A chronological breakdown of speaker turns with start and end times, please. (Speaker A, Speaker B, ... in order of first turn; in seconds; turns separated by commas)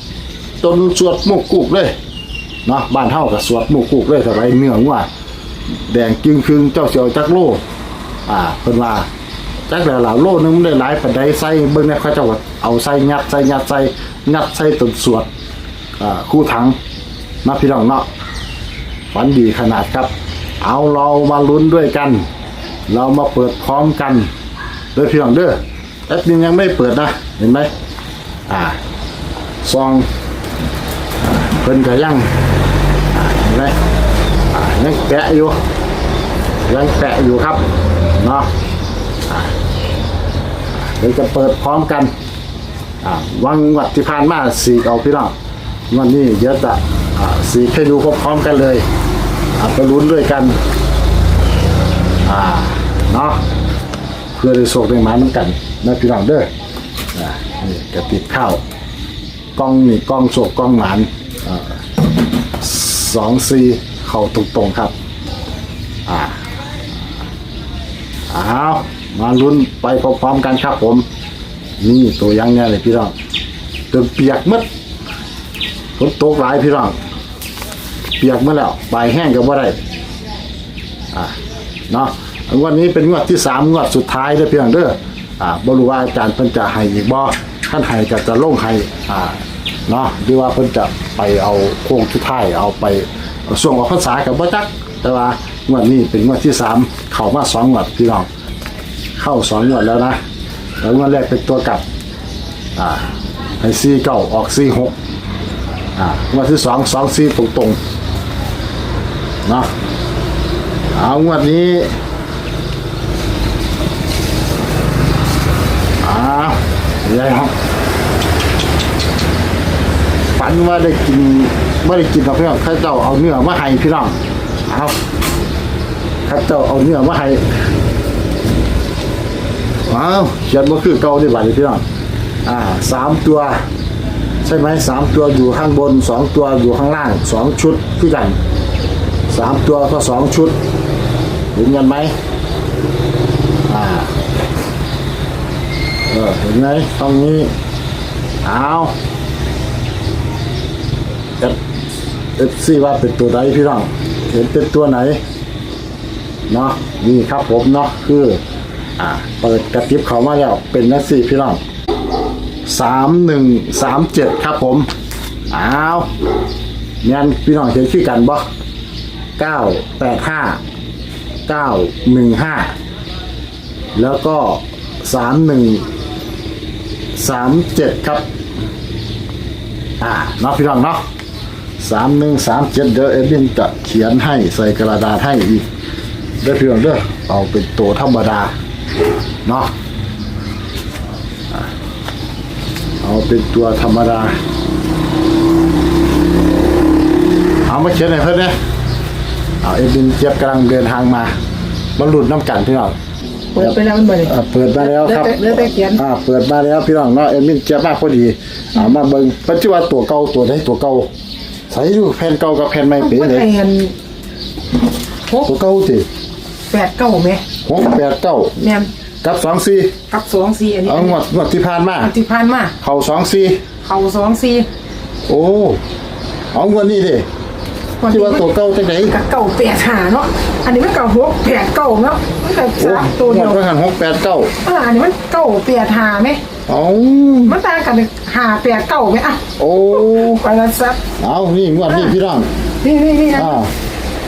Speaker A: 0.6-1.9, Speaker A: 2.7-5.1, Speaker A: 5.7-7.6, Speaker A: 8.3-9.1, Speaker A: 9.7-15.3, Speaker A: 16.0-16.8, Speaker A: 17.4-18.1, Speaker A: 19.1-22.3, Speaker A: 22.9-24.3, Speaker A: 24.9-27.7, Speaker A: 28.5-28.8, Speaker A: 29.6-30.1, Speaker A: 31.2-32.3, Speaker A: 33.1-33.8, Speaker A: 34.5-35.6, Speaker A: 36.7-37.6, Speaker A: 38.2-38.5, Speaker A: 39.3-39.5, Speaker A: 40.8-42.1, Speaker A: 43.0-45.3, Speaker A: 45.9-48.9, Speaker A: 49.6-50.6, Speaker A: 52.2-53.4, Speaker A: 54.4-56.5, Speaker A: 57.1-58.6, Speaker A: 59.6-61.8, Speaker A: 62.6-64.9, Speaker A: 66.1-66.4, Speaker A: 68.3-71.0, Speaker A: 71.8-73.1, Speaker A: 73.9-74.7, Speaker A: 76.0-77.0, Speaker A: 78.2-79.8, Speaker A: 81.9-98.3, Speaker A: 99.2-100.2, Speaker A: 100.8-101.8, Speaker A: 102.8-105.0, Speaker A: 106.0-107.8, Speaker A: 109.5-109.7, Speaker A: 110.9-112.0, Speaker A: 116.0-117.5, Speaker A: 120.4-125.0, Speaker A: 126.3-127.5, Speaker A: 129.9-131.8, Speaker A: 132.5-133.6, Speaker A: 134.4-138.4, Speaker A: 139.3-140.6, Speaker A: 141.5-142.1, Speaker A: 143.7-144.1, Speaker A: 146.1-147.5, Speaker A: 148.4-148.9, Speaker A: 152.4-155.2, Speaker A: 156.5-158.4, Speaker A: 159.0-161.6, Speaker A: 162.7-164.9, Speaker A: 165.5-166.1, Speaker A: 167.0-168.4, Speaker A: 169.4-170.6, Speaker A: 171.5-172.7, Speaker A: 174.0-175.9, Speaker A: 177.2-178.2, Speaker A: 180.0-181.0, Speaker A: 181.8-185.7, Speaker A: 186.4-188.5, Speaker A: 189.4-189.7, Speaker A: 193.0-194.4, Speaker A: 197.7-198.6, Speaker A: 199.6-201.3, Speaker A: 202.0-203.0, Speaker B: 203.5-206.0, Speaker A: 203.6-211.1, Speaker A: 211.7-213.5, Speaker B: 213.0-213.9, Speaker A: 215.5-216.1, Speaker B: 216.7-217.4, Speaker A: 217.7-218.5, Speaker B: 218.6-218.9, Speaker A: 219.2-219.9, Speaker B: 220.1-221.2, Speaker A: 220.8-222.1, Speaker B: 222.0-222.7, Speaker A: 222.8-223.6, Speaker B: 223.8-224.7, Speaker A: 225.3-225.8, Speaker A: 226.5-227.3, Speaker B: 228.0-228.5, Speaker A: 228.1-229.2, Speaker B: 229.0-233.6, Speaker A: 232.8-234.5, Speaker B: 234.6-236.4, Speaker A: 236.7-237.6, Speaker B: 237.5-241.0, Speaker A: 239.6-240.4, Speaker A: 241.2-242.5, Speaker B: 241.9-242.1, Speaker B: 242.8-243.5, Speaker A: 243.3-243.7